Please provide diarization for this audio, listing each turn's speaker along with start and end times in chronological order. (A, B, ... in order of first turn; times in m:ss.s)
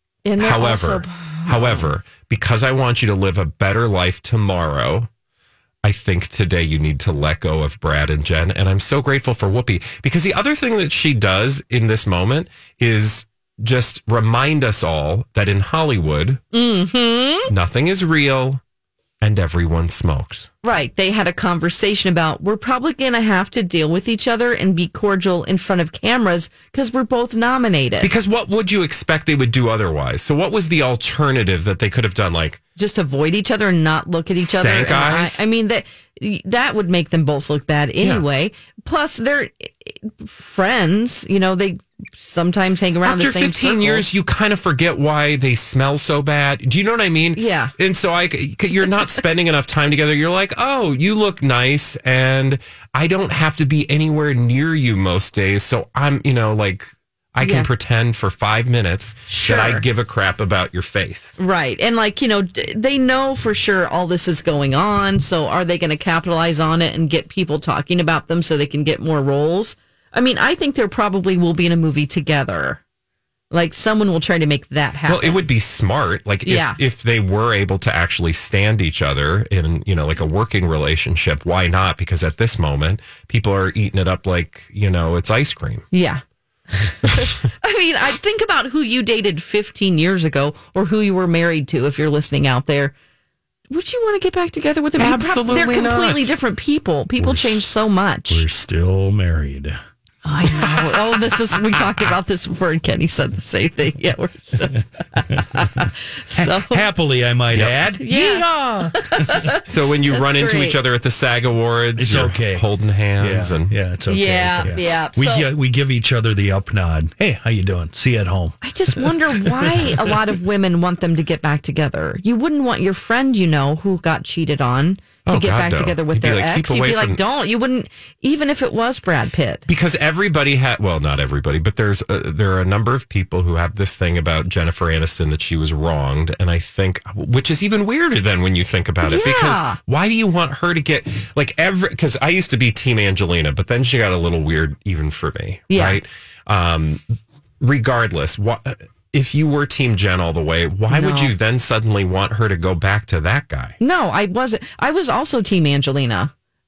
0:00.2-0:01.9 A
0:00.4-0:05.1 B
0:05.8-0:16.4 B
0:16.5-0:17.5 A
0:17.5-0:18.6 B
0:19.2-0:20.5 B
0:20.6-0:28.1 A
0:28.0-0:32.6 B
0:32.8-0:44.1 A
0:34.4-0:35.4 B
0:43.0-1:01.4 B
0:47.4-0:47.7 A
0:57.4-0:57.7 A
0:59.3-0:59.8 A
1:01.4-1:12.8 A
1:13.5-1:15.4 A
1:15.1-1:25.8 B
1:16.4-1:16.8 A
1:25.9-1:26.2 A
1:26.8-1:32.9 A
1:33.7-1:38.4 A
1:35.0-1:36.3 B
1:37.2-1:37.7 C
1:38.3-1:39.8 C
1:40.2-1:46.8 A
1:45.3-1:49.5 C
1:47.5-1:47.8 B
1:48.0-1:50.8 A
1:49.7-1:53.8 B
1:52.0-1:52.6 C
1:53.2-2:00.2 C
1:54.1-1:55.5 A
1:58.6-2:09.7 A
2:05.3-2:07.2 B
2:09.7-2:27.1 B
2:19.0-2:19.8 A
2:25.7-2:26.0 A
2:27.6-2:33.8 B
2:30.9-2:31.3 A
2:33.8-2:36.3 A